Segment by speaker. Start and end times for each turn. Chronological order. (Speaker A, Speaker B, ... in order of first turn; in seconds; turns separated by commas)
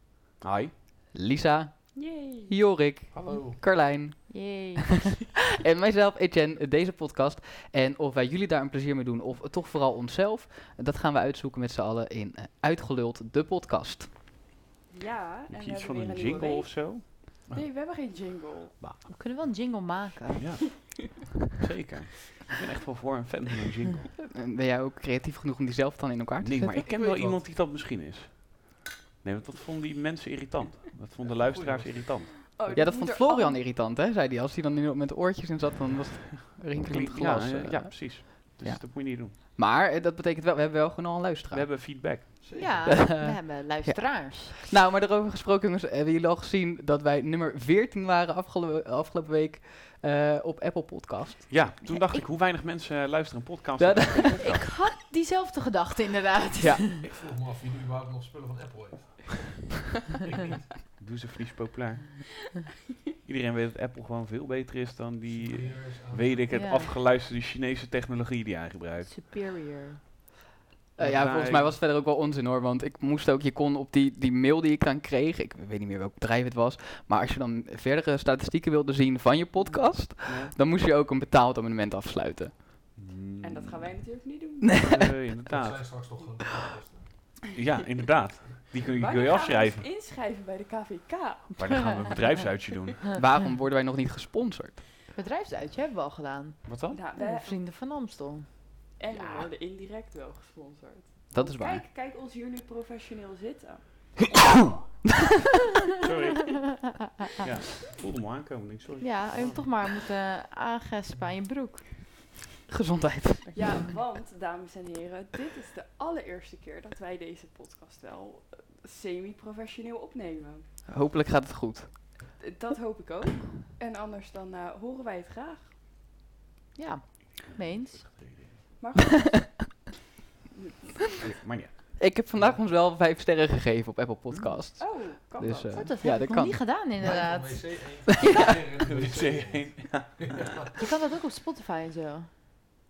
Speaker A: 0.4-0.7, Speaker B: 1.1-14.1, Speaker C: 1.9-2.6, Speaker D: 3.1-3.6, Speaker E: 4.3-5.1, Speaker C: 14.9-18.7, Speaker A: 15.5-17.6, Speaker E: 19.1-20.7, Speaker A: 20.4-20.7, Speaker A: 21.2-24.1, Speaker B: 24.3-26.8, Speaker A: 26.4-32.3, Speaker D: 26.8-27.4, Speaker D: 31.2-32.3, Speaker C: 32.4-33.6, Speaker B: 32.7-41.7, Speaker A: 36.9-39.3, Speaker A: 41.5-42.4, Speaker D: 42.4-42.9, Speaker E: 42.5-44.6, Speaker B: 42.9-51.5, Speaker A: 51.5-54.7, Speaker E: 51.8-52.3, Speaker B: 53.8-54.5, Speaker E: 54.4-57.0, Speaker B: 56.6-56.8, Speaker D: 57.0-60.7, Speaker A: 61.0-62.3, Speaker A: 63.2-69.1, Speaker D: 65.2-66.7, Speaker E: 66.5-66.9, Speaker E: 69.0-70.0, Speaker B: 71.0-82.5, Speaker A: 71.0-71.8, Speaker A: 80.2-80.5, Speaker A: 83.0-84.0, Speaker C: 83.4-85.0, Speaker B: 84.7-85.0, Speaker A: 84.8-85.9, Speaker D: 85.5-87.1, Speaker A: 87.5-89.8, Speaker C: 88.9-91.5, Speaker A: 91.5-93.0, Speaker B: 93.2-94.8, Speaker E: 95.1-98.5, Speaker A: 96.7-97.0, Speaker C: 96.9-97.6, Speaker C: 99.0-103.8, Speaker A: 99.1-99.5, Speaker B: 101.3-101.8, Speaker A: 106.0-106.7, Speaker E: 106.6-106.9, Speaker A: 107.4-109.7, Speaker E: 109.0-112.0, Speaker B: 112.7-113.6, Speaker C: 113.5-120.7, Speaker B: 120.9-122.1, Speaker C: 122.4-125.7, Speaker E: 126.7-128.1, Speaker A: 127.6-128.5, Speaker C: 128.8-129.6, Speaker C: 130.5-131.0, Speaker A: 131.2-132.0, Speaker B: 132.0-136.7, Speaker C: 134.8-135.9, Speaker E: 135.7-137.8, Speaker D: 137.0-140.9, Speaker B: 138.1-138.5, Speaker A: 138.8-140.7, Speaker E: 140.8-142.5